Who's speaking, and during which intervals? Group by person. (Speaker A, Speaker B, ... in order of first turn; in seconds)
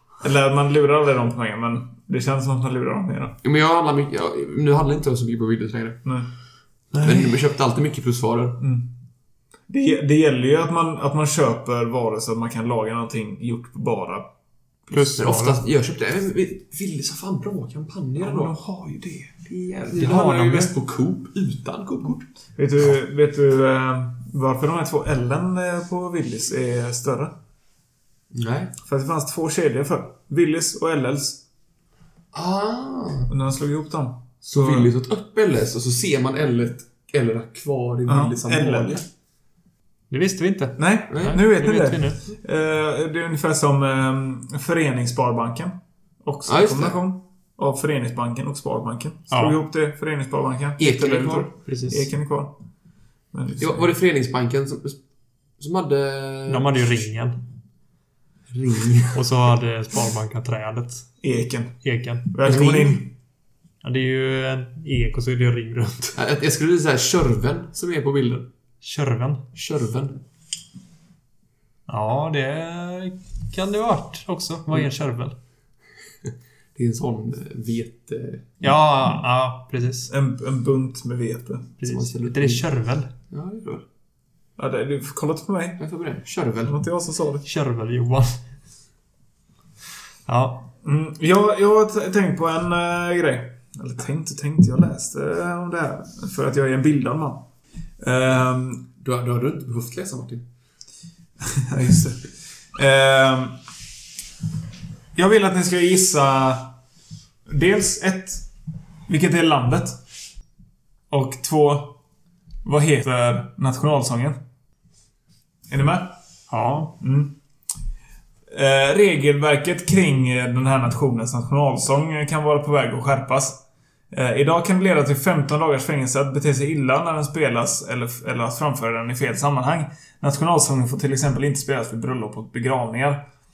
Speaker A: 0.2-3.4, 8.6-8.9, 9.7-14.3, 18.2-19.4, 22.6-27.4, 28.8-31.4, 33.3-34.9, 38.1-39.0, 40.8-52.5, 53.3-53.9, 61.2-61.8, 62.3-63.1, 80.1-81.8, 84.6-85.8, 86.7-87.5, 90.8-97.5, 98.0-98.8, 101.5-103.6, 105.2-106.8, 107.5-108.5, 109.1-110.0, 111.1-112.0, 112.6-114.4, 115.7-116.1, 117.0-117.3, 118.5-133.3
Speaker B: 3.4-6.0, 7.0-8.6, 15.2-18.5, 19.4-22.3, 28.3-28.7, 32.3-33.3, 34.5-39.1, 41.1-41.4, 46.5-47.0, 50.8-51.5, 53.6-55.0, 55.6-56.8, 58.5-59.2, 62.4-63.0, 66.2-68.5, 69.5-70.2, 76.8-78.4, 81.8-82.7, 83.3-83.8, 85.8-86.8, 99.0-100.5
Speaker C: 6.9-7.3, 14.9-15.6, 20.0-20.8, 40.1-42.2, 49.3-49.6, 51.7-52.1, 56.5-57.4, 59.1-61.1, 61.8-62.3, 63.8-66.2, 68.8-69.5, 71.9-75.4, 78.6-80.1, 81.8-83.1, 87.5-88.4, 90.3-90.7, 116.5-117.0